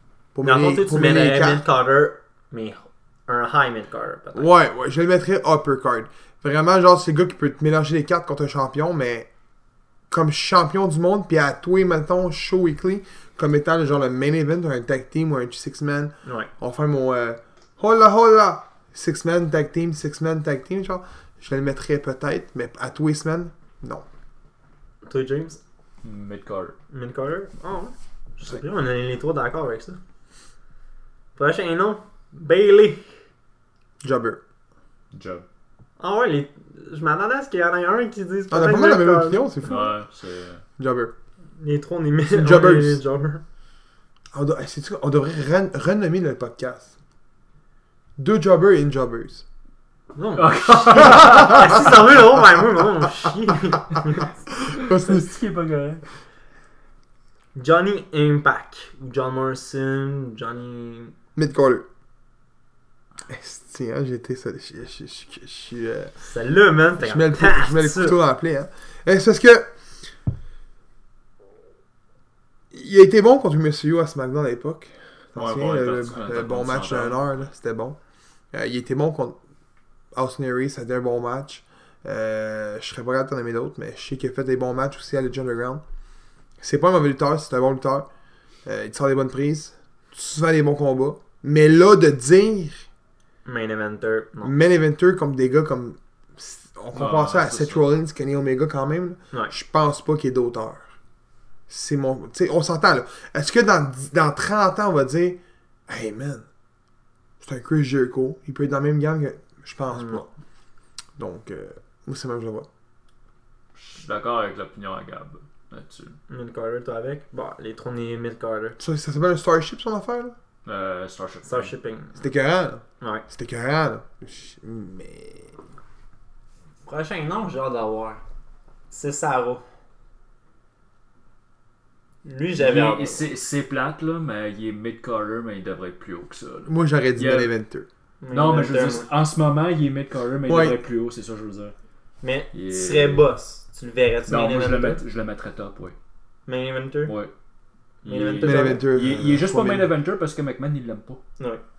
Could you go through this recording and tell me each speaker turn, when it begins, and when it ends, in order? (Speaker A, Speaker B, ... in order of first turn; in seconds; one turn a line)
Speaker A: 0.3-1.6
Speaker B: 0.4-4.5
Speaker A: 4.3-9.3
Speaker A: 10.1-24.1
Speaker B: 16.2-16.5
Speaker B: 25.1-25.6
Speaker C: 26.0-26.8
Speaker B: 26.9-30.0
Speaker B: 31.4-33.1
Speaker A: 34.0-34.4
Speaker C: 35.1-35.5
Speaker B: 36.0-39.5
Speaker A: 38.5-39.9
Speaker C: 39.6-40.6
Speaker A: 40.8-41.1
Speaker B: 41.6-43.4
Speaker A: 42.3-43.0
Speaker A: 44.3-46.9
Speaker A: 48.2-49.4
Speaker B: 50.2-54.3
Speaker C: 50.4-51.9
Speaker A: 54.7-55.3
Speaker C: 54.7-56.0
Speaker B: 57.5-61.1
Speaker A: 61.4-61.9
Speaker A: 63.3-66.1
Speaker B: 66.2-68.2
Speaker A: 67.0-69.7
Speaker A: 72.7-78.0
Speaker C: 75.3-77.4
Speaker A: 78.5-79.4
Speaker A: 80.1-85.8
Speaker A: 86.6-88.1
Speaker A: 88.7-92.9
Speaker B: 93.5-94.5
Speaker A: 94.4-100.9
Speaker C: 96.9-97.8
Speaker A: 101.7-106.5
Speaker A: 107.4-110.3
Speaker B: 109.9-110.2
Speaker A: 111.2-112.7
Speaker C: 113.8-116.2
Speaker B: 116.3-118.8
Speaker A: 118.8-120.3
Speaker C: 120.7-121.7
Speaker B: 121.5-122.2
Speaker A: 122.2-125.5
Speaker B: 123.0-123.3
Speaker B: 126.8-128.2
Speaker B: 128.9-129.6
Speaker B: 132.2-133.3
Speaker C: 132.6-137.5
Speaker A: 136.7-137.9
Speaker B: 138.2-139.1
Speaker C: 138.3-141.7
Speaker A: 140.5-140.8
Speaker B: 142.2-145.0
Speaker C: 142.5-143.3
Speaker C: 144.3-145.9
Speaker B: 146.5-147.2
Speaker C: 147.1-147.3
Speaker C: 148.0-151.2
Speaker B: 148.1-148.9
Speaker A: 148.4-149.9